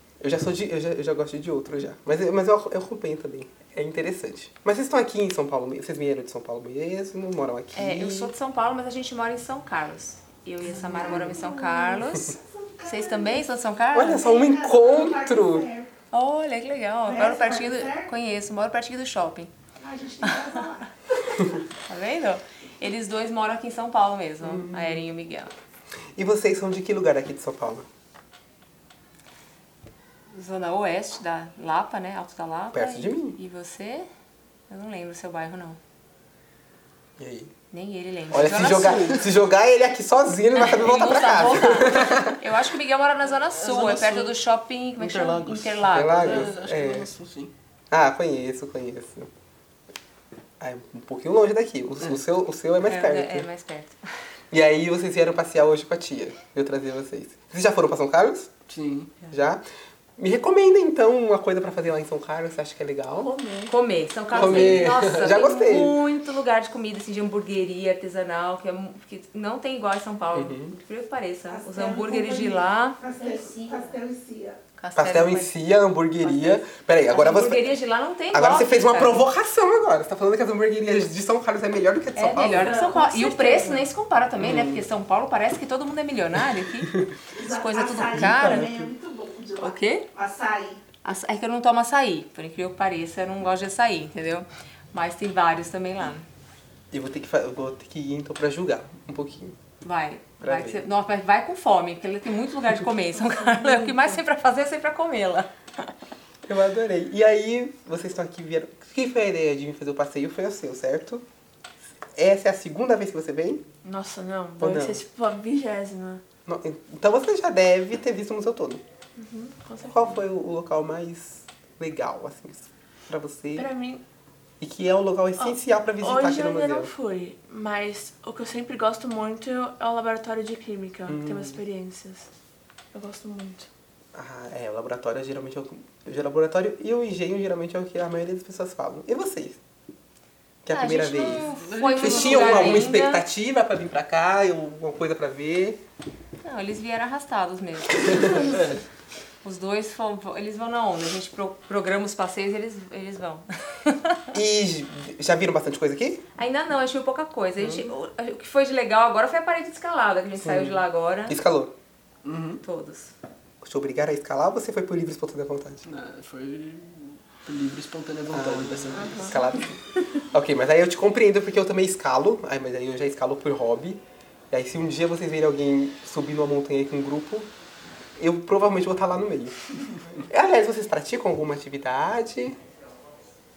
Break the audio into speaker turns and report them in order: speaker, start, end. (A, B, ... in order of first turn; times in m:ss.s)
0:00.2-0:08.3 A
0:07.7-0:14.5 B
0:10.9-0:13.4 C
0:13.9-0:15.8 A
0:14.4-0:15.9 C
0:16.1-0:19.5 B
0:17.1-0:18.0 C
0:19.8-0:20.9 C
0:20.2-0:20.7 B
0:21.8-0:25.5 B
0:24.4-0:25.0 A
0:26.2-0:27.9 A
0:30.3-0:34.1 B
0:32.7-0:33.4 A
0:34.7-0:35.8 B
0:37.2-0:37.5 A
0:37.7-0:39.4 B
0:38.3-0:42.4 A
0:40.6-0:46.5 B
0:43.4-0:44.4 D
0:45.0-0:47.5 D
0:45.9-0:47.1 A
0:47.9-0:49.3 A
0:50.6-0:53.5 A
0:52.9-0:54.0 B
0:54.5-0:58.5 A
0:58.7-0:59.1 D
0:59.3-0:59.6 A
1:00.2-1:03.3 A
1:03.2-1:03.7 E
1:03.7-1:13.0 B
1:04.3-1:06.0 A
1:04.3-1:04.9 D
1:10.3-1:10.7 A
1:11.6-1:14.6 C
1:14.8-1:15.6 B
1:15.0-1:17.7 A
1:16.2-1:19.3 B
1:18.3-1:22.8 A
1:22.2-1:28.8 B
1:22.6-1:23.9 E
1:27.4-1:30.8 C
1:28.0-1:28.9 A
1:29.0-1:29.6 E
1:29.6-1:30.1 B
1:31.0-1:36.2 B
1:36.9-1:39.6 A
1:39.8-1:45.5 B
1:40.4-1:40.8 A
1:43.6-1:43.9 E
1:46.4-1:51.2 A
1:52.2-1:53.6 A
1:53.8-1:56.2 E
1:54.6-1:55.0 A
1:56.5-1:58.8 A
1:59.2-2:00.2 E
1:59.8-2:03.7 A
2:03.6-2:04.0 E
2:04.6-2:06.9 A
2:05.4-2:12.3 E
2:11.1-2:11.6 A
2:12.9-2:13.7 E
2:14.1-2:19.6 A
2:20.6-2:25.8 A
2:20.7-2:23.2 B
2:21.4-2:22.9 D
2:26.4-2:28.8 B
2:28.5-2:28.8 D
2:29.4-2:34.2 B
2:34.3-2:36.2 A
2:36.4-2:41.4 B
2:37.6-2:37.9 A
2:40.4-2:41.7 A
2:42.2-2:42.6 D
2:42.6-2:43.1 B
2:43.6-2:45.8 A
2:45.8-2:49.4 D
2:48.3-2:57.5 A
2:48.9-2:49.4 E
2:58.2-3:02.6 A